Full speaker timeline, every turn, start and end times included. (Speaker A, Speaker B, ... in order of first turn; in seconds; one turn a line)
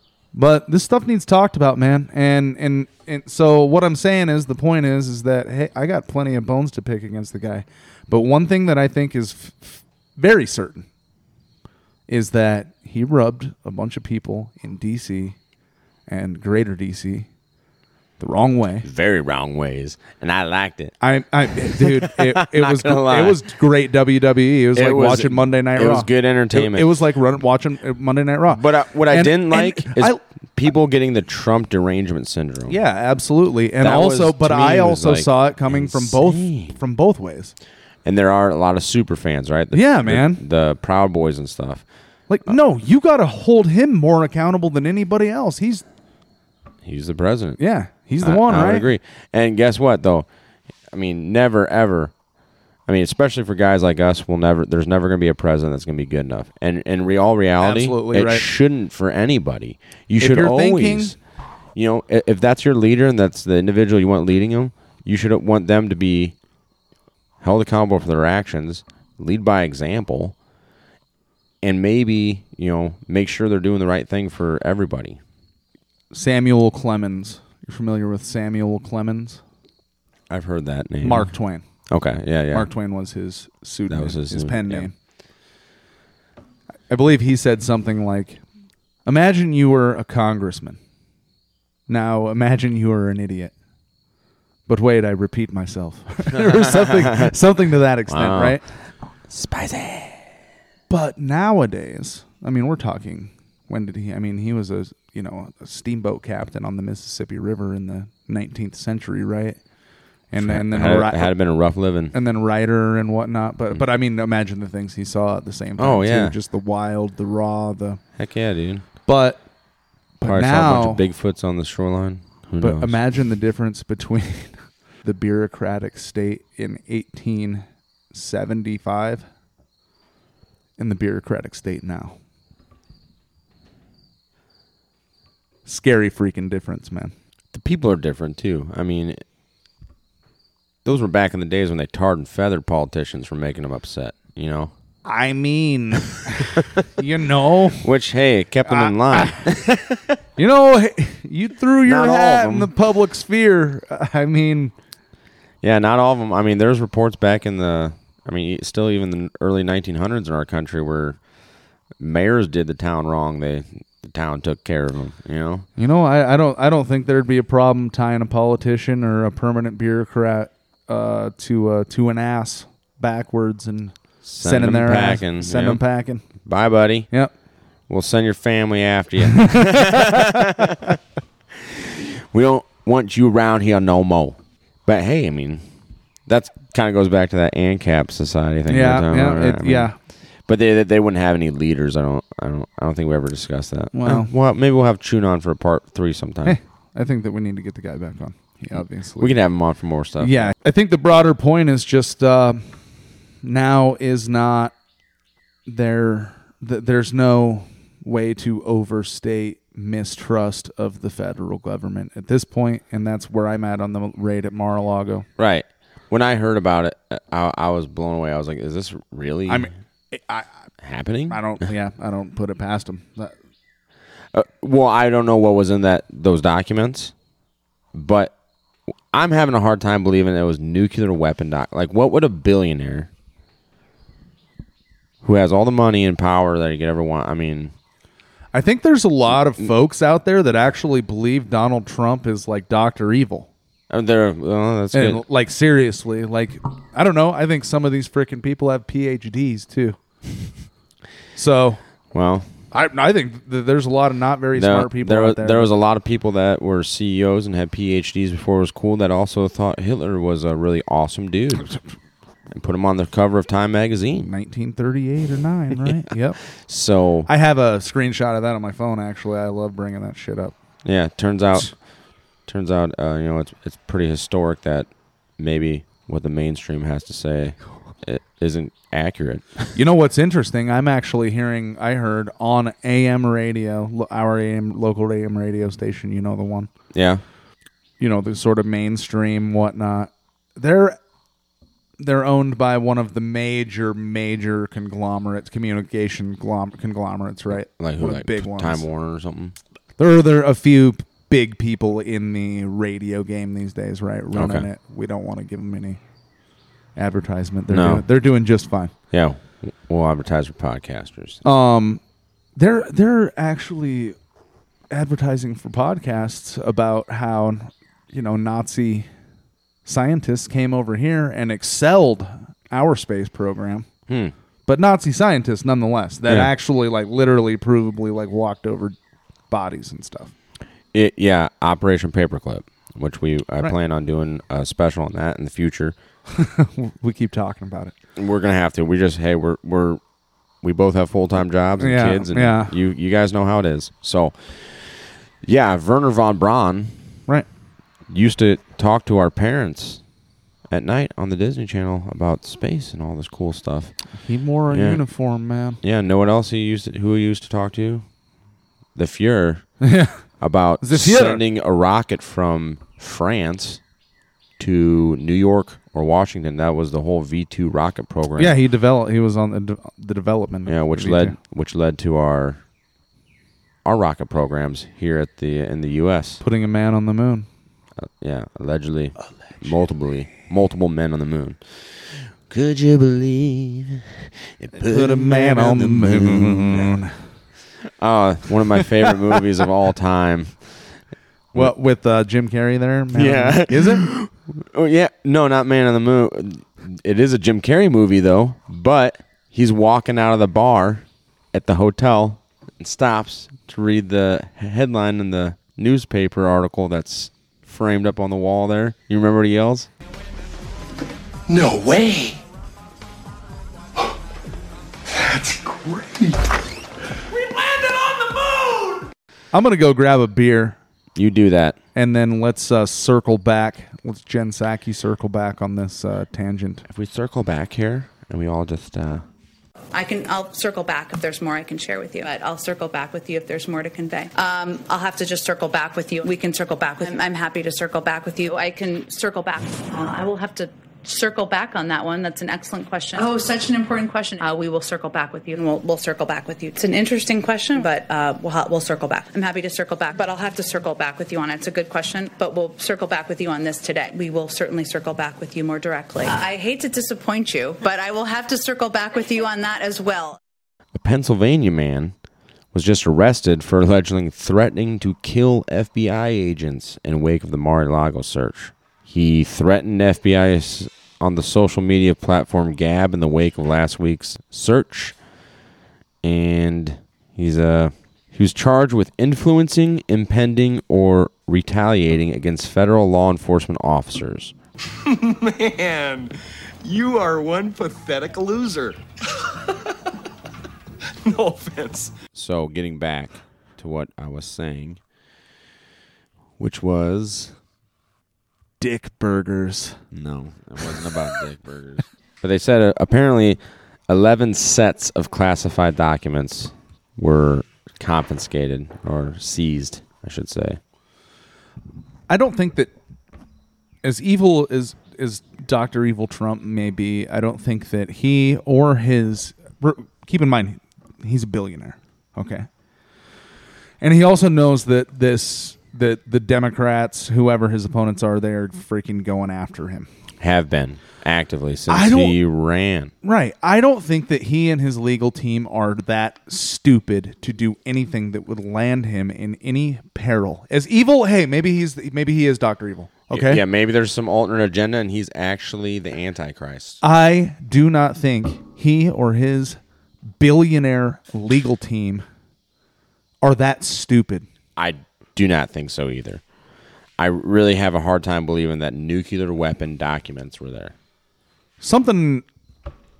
Speaker A: 0.3-10.9
Speaker A: 12.1-15.3
Speaker A: 16.1-17.3
Speaker A: 18.2-18.9
Speaker B: 18.8-20.9
Speaker A: 21.0-30.2
Speaker B: 21.6-23.4
Speaker B: 24.7-27.0
Speaker B: 28.5-32.7
Speaker A: 32.7-37.5
Speaker B: 33.8-36.8
Speaker B: 38.0-41.8
Speaker A: 39.7-40.4
Speaker A: 42.3-45.8
Speaker B: 46.8-47.6
Speaker A: 47.6-48.9
Speaker B: 48.2-50.2
Speaker B: 50.9-52.1
Speaker B: 52.9-61.2
Speaker A: 57.6-58.5
Speaker A: 60.2-61.1
Speaker B: 61.7-66.3
Speaker B: 67.4-70.3
Speaker B: 71.6-75.2
Speaker A: 76.1-79.4
Speaker B: 80.3-81.3
Speaker A: 81.0-81.7
Speaker B: 81.9-82.7
Speaker A: 82.5-84.9
Speaker B: 83.9-84.9
Speaker A: 86.9-88.4
Speaker A: 89.0-90.8
Speaker A: 91.9-93.5
Speaker A: 94.7-98.6
Speaker B: 96.3-97.3
Speaker B: 98.1-98.7
Speaker B: 99.3-100.2
Speaker A: 100.9-109.6
Speaker A: 110.3-111.3
Speaker B: 110.3-112.1
Speaker A: 112.1-118.0
Speaker B: 115.8-116.3
Speaker B: 118.2-118.8
Speaker A: 119.1-119.4
Speaker A: 120.2-121.0
Speaker B: 120.2-123.0
Speaker A: 122.6-129.2
Speaker A: 130.8-132.2
Speaker A: 135.7-137.1
Speaker B: 137.5-139.2
Speaker B: 140.8-144.7
Speaker A: 145.0-147.9
Speaker B: 147.8-150.2
Speaker A: 148.7-149.4
Speaker A: 150.4-154.7
Speaker B: 151.8-152.7
Speaker B: 155.6-161.2
Speaker B: 162.0-165.7
Speaker A: 165.8-176.2
Speaker B: 174.2-175.8
Speaker B: 176.4-177.1
Speaker B: 177.9-181.0
Speaker A: 179.5-180.3
Speaker B: 181.5-185.6
Speaker B: 186.3-189.9
Speaker A: 188.7-189.9
Speaker B: 190.4-196.6
Speaker A: 193.9-194.3
Speaker A: 196.4-199.4
Speaker B: 199.2-200.5
Speaker A: 200.2-202.6
Speaker A: 203.4-204.7
Speaker A: 205.7-215.2
Speaker B: 215.4-219.7
Speaker A: 219.5-220.5
Speaker B: 220.8-221.7
Speaker A: 221.3-223.3
Speaker B: 224.3-227.1
Speaker B: 227.9-228.3
Speaker B: 229.1-233.1
Speaker B: 235.2-237.7
Speaker A: 238.5-243.5
Speaker B: 243.9-245.2
Speaker A: 244.9-250.0
Speaker A: 251.3-251.8
Speaker B: 252.1-252.5
Speaker A: 252.7-255.7
Speaker B: 254.5-261.8
Speaker B: 262.5-264.3
Speaker A: 264.2-266.4
Speaker B: 266.6-267.3
Speaker A: 267.3-270.5
Speaker B: 270.8-271.8
Speaker B: 272.4-279.7
Speaker A: 279.7-286.7
Speaker B: 286.9-287.2
Speaker A: 288.0-291.0
Speaker A: 292.0-298.9
Speaker B: 297.5-299.6
Speaker A: 300.0-306.0
Speaker B: 304.3-304.7
Speaker A: 306.9-308.9
Speaker B: 307.7-308.1
Speaker B: 309.1-311.4
Speaker A: 311.4-312.0
Speaker A: 312.6-314.1
Speaker A: 314.9-319.1
Speaker A: 319.8-323.9
Speaker B: 324.1-324.3
Speaker A: 324.7-328.9
Speaker A: 329.5-330.3
Speaker B: 330.9-335.9
Speaker A: 336.3-337.9
Speaker B: 338.1-340.0
Speaker B: 340.6-346.9
Speaker A: 341.8-342.7
Speaker B: 348.1-350.0
Speaker B: 350.7-353.9
Speaker A: 354.2-355.8
Speaker B: 354.7-355.0
Speaker B: 355.8-358.0
Speaker B: 358.9-359.7
Speaker A: 359.8-360.2
Speaker B: 360.4-363.8
Speaker A: 360.8-361.4
Speaker B: 364.6-368.6
Speaker A: 368.4-371.4
Speaker B: 370.6-372.6
Speaker B: 373.8-376.4
Speaker A: 376.4-377.5
Speaker B: 378.0-386.9
Speaker A: 384.8-387.1
Speaker B: 388.0-390.6
Speaker A: 391.5-394.1
Speaker B: 393.1-409.9
Speaker C: 415.9-416.2
Speaker A: 419.5-420.8
Speaker B: 421.1-421.8
Speaker A: 421.9-426.8
Speaker B: 426.9-429.2
Speaker D: 429.9-460.4
Speaker B: 460.9-462.1
Speaker B: 462.7-475.1
Speaker B: 476.2-484.5
Speaker C: 485.1-489.0
Speaker C: 491.2-492.1
Speaker B: 492.3-495.0
Speaker B: 496.6-497.6
Speaker A: 498.8-500.0
Speaker B: 500.1-510.8
Speaker A: 512.3-512.9
Speaker A: 514.0-522.7
Speaker A: 524.0-530.1
Speaker B: 530.4-533.1
Speaker A: 531.9-532.4
Speaker A: 533.2-543.6
Speaker B: 543.3-547.0
Speaker A: 547.0-549.8
Speaker A: 550.4-552.2
Speaker A: 553.4-554.5
Speaker B: 554.8-556.4
Speaker B: 557.2-560.9
Speaker A: 561.8-562.4